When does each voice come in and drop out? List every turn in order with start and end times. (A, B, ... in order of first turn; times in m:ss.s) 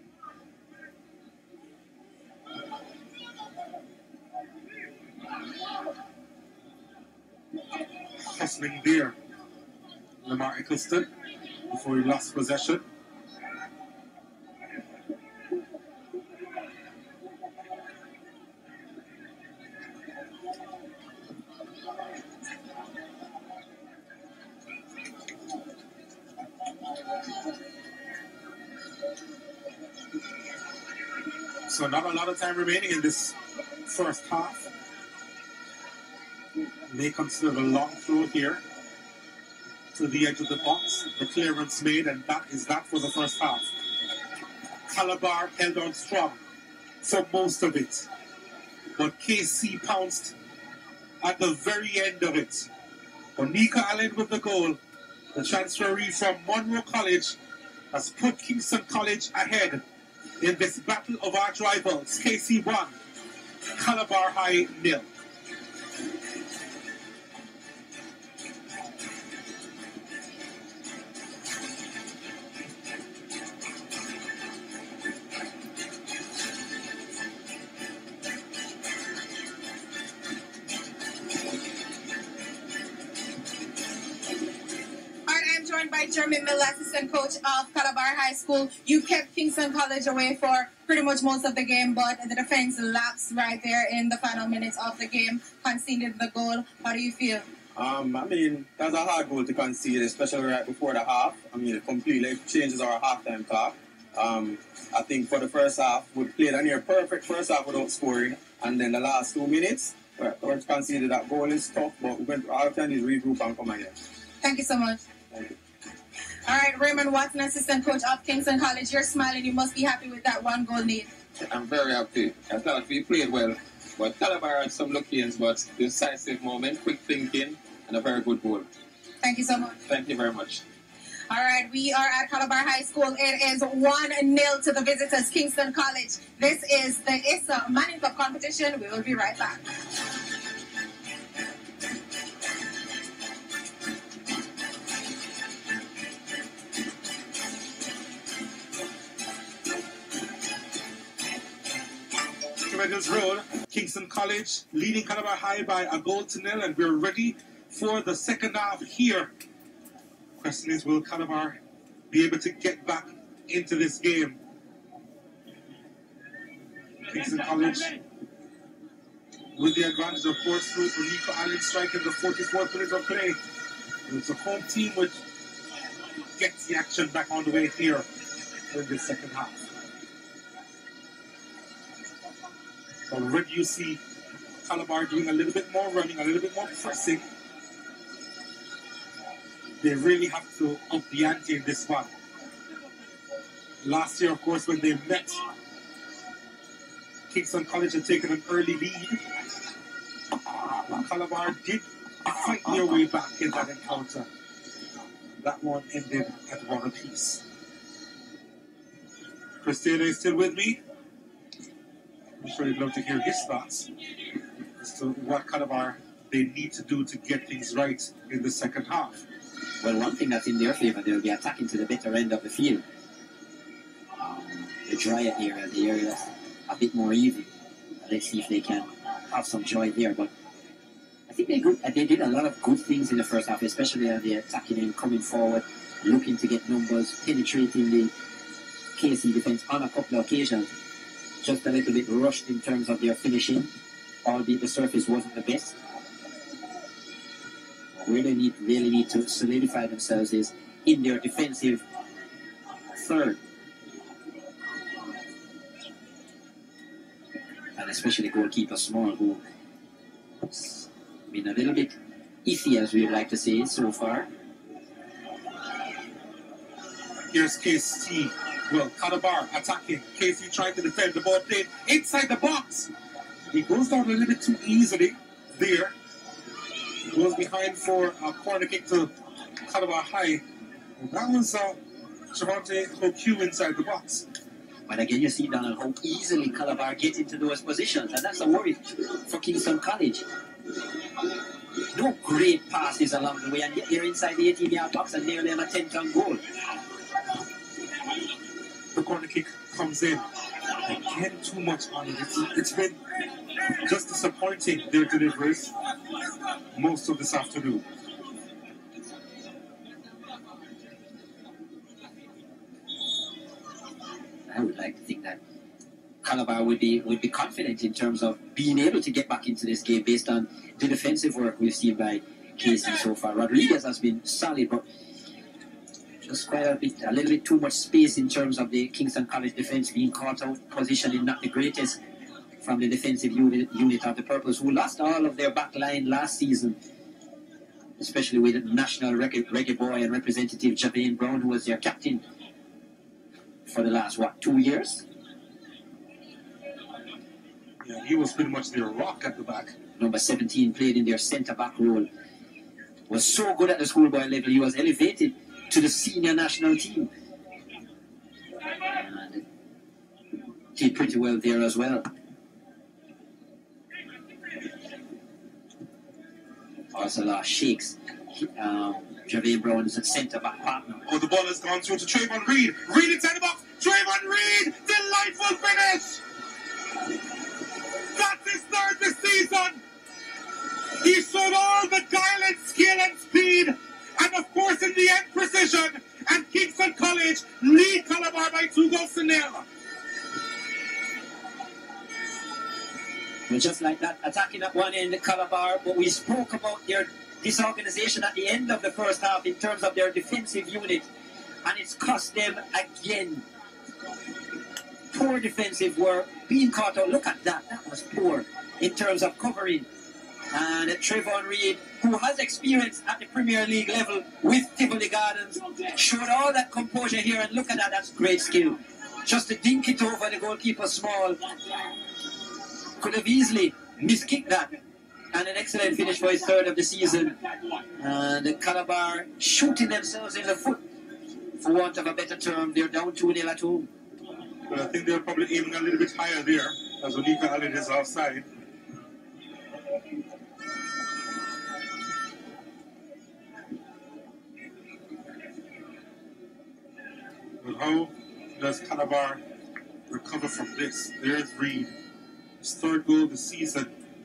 0:08.2-0:09.2 A
0:10.2-0:11.1 A
0:11.7-0:12.8 A
0:31.7-0:34.7 A
0:36.9-0:38.6 A
0:39.9-0:43.7 A
0:44.9-0:46.4 A
0:47.0-0:48.1 A
0:49.0-0:50.3 A
0:51.2-0:52.7 A
0:53.4-0:54.8 A
0:55.3-0:57.4 A
0:57.9-0:59.8 A
1:00.4-1:02.9 A
1:03.8-1:05.1 A
1:25.3-1:37.4 B
1:37.7-1:54.0 C
1:54.4-1:55.0 B
1:56.4-2:01.1 B
2:01.4-2:08.7 D
2:09.2-2:09.8 B
2:09.8-2:10.6 D
2:11.3-2:19.6 B
2:32.6-2:39.3 A
2:40.4-2:41.6 A
2:42.1-2:44.4 A
2:47.1-2:48.0 A
2:49.6-2:53.4 A
2:54.1-2:55.2 A
2:56.4-2:58.1 A
2:58.7-2:59.7 A
3:03.1-3:04.0 A
3:04.6-3:07.3 A
3:09.8-3:12.1 A
3:13.8-3:15.4 A
3:17.3-3:19.2 A
3:20.9-3:24.3 A
3:25.4-3:27.4 A
3:29.6-3:30.8 A
3:32.4-3:33.9 A
3:34.8-3:39.2 A
3:39.8-3:42.8 E
3:44.2-3:47.5 E
3:48.0-3:50.3 E
3:51.3-3:58.1 E
3:59.0-4:00.7 E
4:01.4-4:03.7 E
4:04.2-4:05.8 E
4:07.9-4:11.8 E
4:12.9-4:13.4 E
4:17.8-4:19.4 E
4:20.4-4:24.3 E
4:27.3-4:32.9 A
4:33.5-4:35.9 A
4:37.1-4:40.4 A
4:41.0-4:41.8 A
4:42.3-4:44.3 A
4:44.9-4:50.2 E
4:51.9-4:56.4 E
4:58.9-5:00.3 A
5:00.8-5:03.0 A
5:03.8-5:05.7 A
5:06.7-5:07.8 A
5:14.5-5:15.4 E
5:16.2-5:24.8 E
5:26.2-5:32.0 E
5:32.6-5:36.8 E
5:38.0-5:42.2 E
5:43.7-5:45.0 E
5:47.8-5:49.7 A
5:50.0-5:52.1 E
5:53.1-5:57.1 E
5:58.8-5:59.4 E
6:00.8-6:02.1 E
6:06.9-6:11.0 E
6:11.1-6:16.2 A
6:18.0-6:19.8 A
6:21.0-6:29.7 A
6:33.5-6:41.1 E
6:41.6-6:43.4 E
6:45.1-6:49.9 E
6:50.5-7:01.4 E
7:03.0-7:04.8 E
7:05.3-7:07.4 E
7:08.0-7:10.8 E
7:11.6-7:13.9 E
7:14.7-7:18.4 A
7:27.6-7:29.4 A
7:30.1-7:31.9 A
7:32.6-7:33.9 A